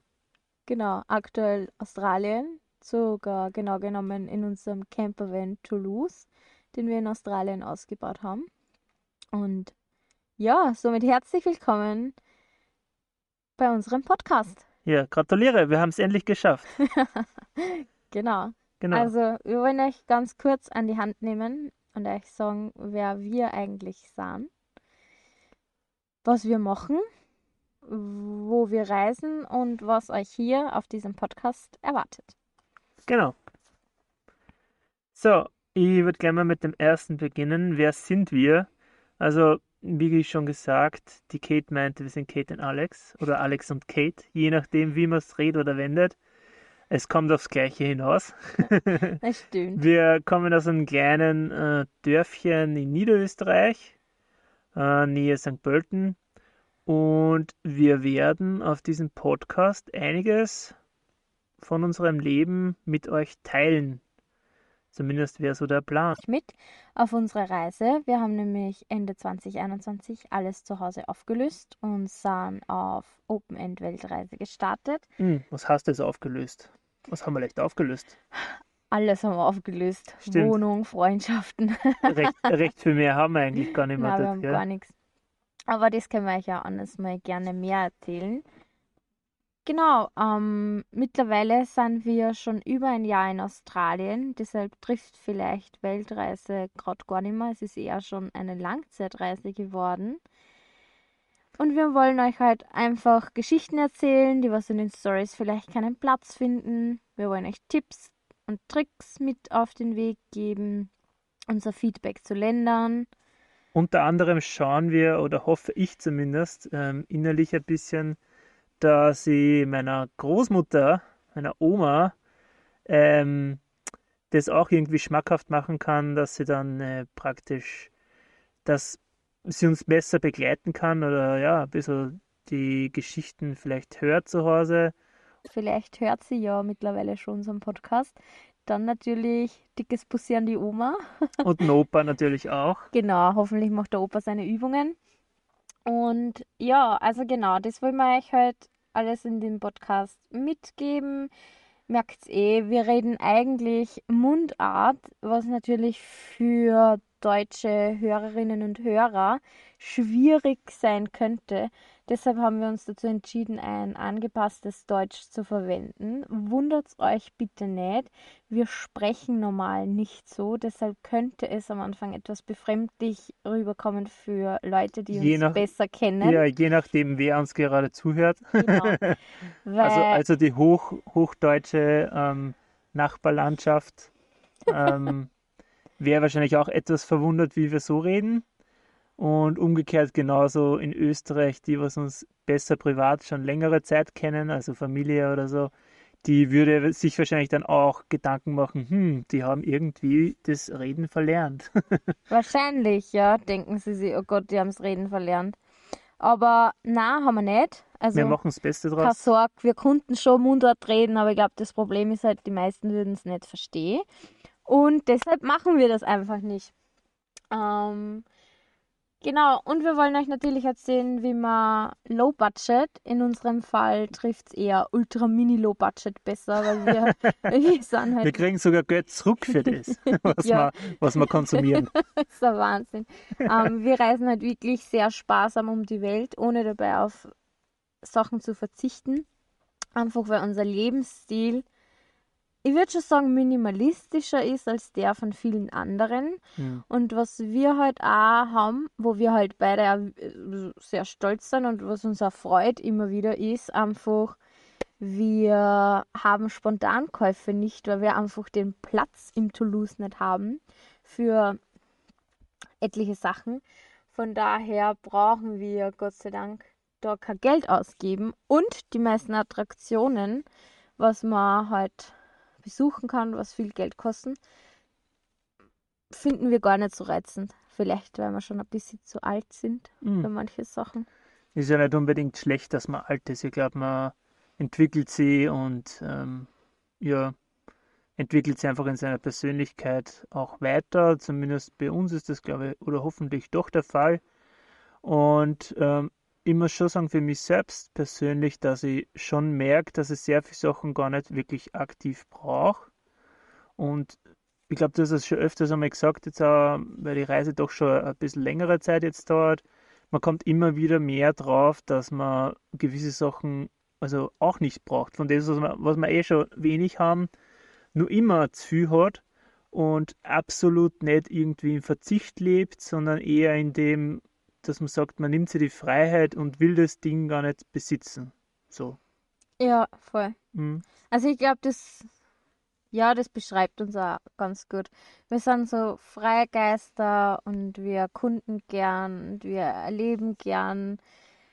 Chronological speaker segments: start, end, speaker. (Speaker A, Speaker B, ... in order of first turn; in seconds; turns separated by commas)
Speaker A: 0.7-8.5, Speaker A: 9.3-9.7, Speaker A: 10.4-12.2, Speaker A: 13.6-14.6, Speaker B: 14.8-16.7, Speaker A: 16.8-24.5, Speaker B: 18.8-19.1, Speaker A: 26.2-27.0, Speaker A: 27.9-32.4, Speaker B: 33.1-33.4, Speaker B: 35.1-46.2, Speaker B: 46.9-49.2, Speaker A: 49.2-49.8, Speaker B: 49.8-54.0, Speaker B: 54.7-56.2, Speaker B: 56.9-60.8, Speaker B: 61.6-64.0, Speaker B: 64.9-66.2, Speaker A: 66.2-75.1, Speaker B: 75.2-78.1, Speaker A: 78.9-82.4, Speaker B: 80.3-80.6, Speaker B: 82.1-84.6, Speaker A: 83.7-84.9, Speaker A: 85.7-88.4, Speaker A: 89.7-100.2, Speaker A: 101.6-110.9, Speaker A: 111.5-113.1, Speaker B: 113.7-118.2, Speaker B: 118.8-122.2, Speaker B: 122.9-123.6, Speaker B: 124.3-127.9, Speaker B: 128.7-134.9, Speaker A: 135.4-141.0, Speaker B: 141.4-142.9, Speaker A: 142.9-145.0, Speaker A: 145.9-151.3, Speaker A: 151.9-176.4, Speaker B: 175.1-175.6, Speaker B: 176.2-179.2, Speaker A: 178.6-179.0, Speaker A: 179.7-180.2, Speaker B: 179.8-184.1, Speaker B: 184.7-185.3, Speaker B: 186.0-188.4, Speaker B: 189.2-195.7, Speaker B: 196.2-202.0, Speaker A: 202.3-205.6, Speaker A: 206.2-208.4, Speaker B: 208.1-209.2, Speaker A: 209.0-214.1, Speaker A: 214.7-216.7, Speaker A: 217.5-218.3, Speaker A: 219.2-228.4, Speaker B: 228.2-231.9, Speaker A: 229.9-237.3, Speaker A: 238.0-239.3, Speaker A: 239.9-241.7, Speaker A: 242.6-254.4, Speaker B: 246.6-246.8, Speaker A: 255.0-261.6, Speaker A: 262.8-270.4, Speaker A: 271.0-274.4, Speaker A: 276.1-281.1, Speaker B: 280.0-280.3, Speaker B: 281.6-286.5, Speaker B: 287.0-287.4, Speaker B: 288.2-294.2, Speaker B: 295.0-302.9, Speaker B: 303.8-304.2, Speaker B: 304.7-317.3, Speaker B: 317.9-329.0, Speaker A: 329.6-330.4, Speaker B: 330.5-330.9, Speaker A: 331.1-332.1, Speaker A: 332.9-341.0